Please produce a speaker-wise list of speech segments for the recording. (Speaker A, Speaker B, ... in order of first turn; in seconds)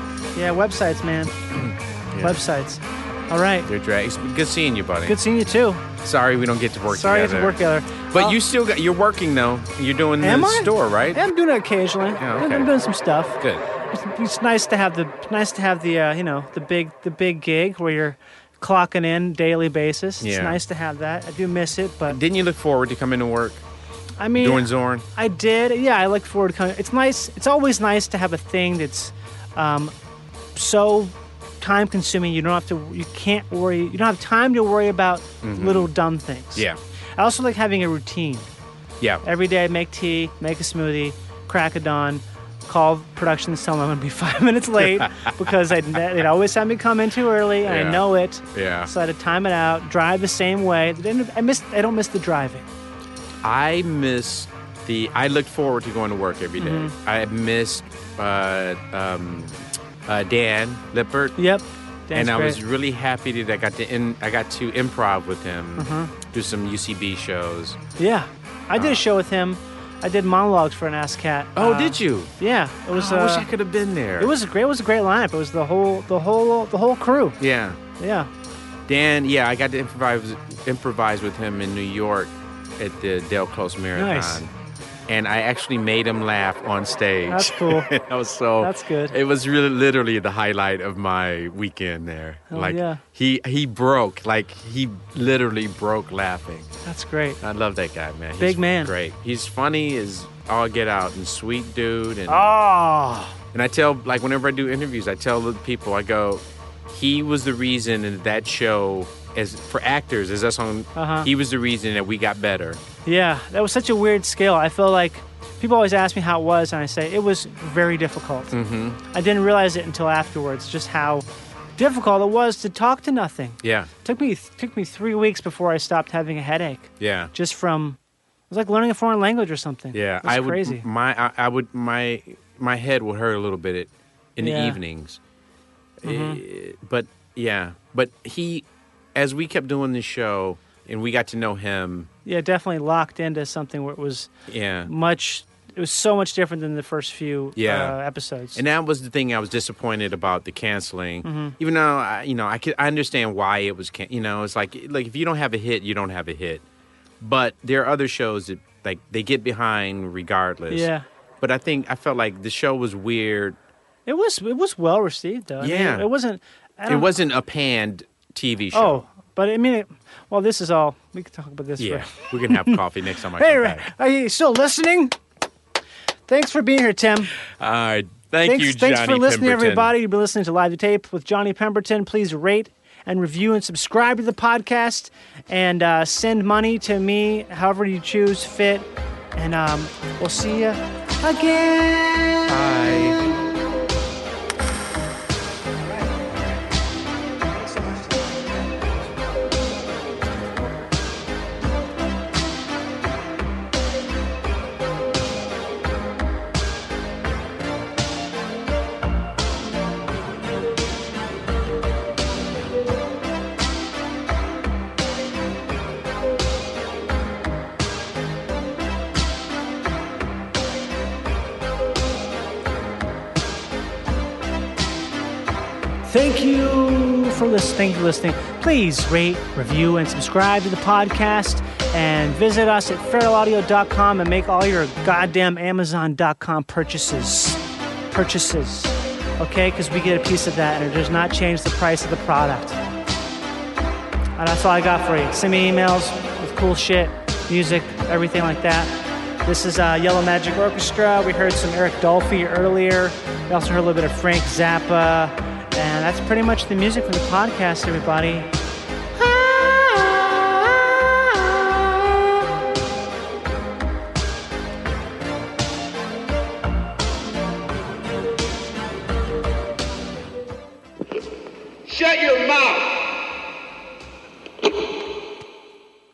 Speaker A: 0.3-1.3, 2.2-3.7, 5.1-5.9, 6.9-8.4, 10.2-22.2, 24.2-29.9, 30.6-36.7, 37.2-38.5, 39.2-52.7, 56.6-57.0, 61.4-62.6, 65.8-66.1, 68.0-73.5, 74.2-77.4, 78.0-78.3, 84.0-84.4, 87.3-87.9, 88.6-89.1, 92.5-93.0, 96.8-97.4, 98.4-98.9, 102.3-103.4, 111.0-111.3, 113.1-118.5, 119.1-128.0, 128.5-130.8, 134.4-134.8, 136.0-136.4, 142.3-144.3, 144.8-148.6, 151.2-151.6, 160.7-161.1, 164.1-167.1, 168.7-172.8, 173.4-175.2, 176.3-177.3, 178.4-193.5, 197.5-199.1, 226.0-242.8, 244.4-258.5, 259.1-262.1
Speaker B: 1.6-2.4, 3.7-5.2, 6.0-7.6, 8.1-11.2, 12.2-12.7, 20.2-20.6, 22.1-23.6, 24.4-25.1, 35.4-35.9, 47.6-48.9, 53.4-61.4, 62.1-67.8, 68.8-69.0, 71.6-72.3, 72.9-74.3, 77.4-77.8, 78.9-84.5, 85.1-96.7, 97.4-102.5, 103.5-112.8, 118.5-119.0, 123.6-123.9, 127.0-127.3, 129.9-135.2, 136.0-142.1, 144.5-144.9, 147.6-147.9, 148.6-156.6, 157.2-160.9, 161.4-163.6, 165.6-166.1, 166.9-169.0, 171.8-173.8, 177.5-179.9, 192.5-193.2, 271.9-272.8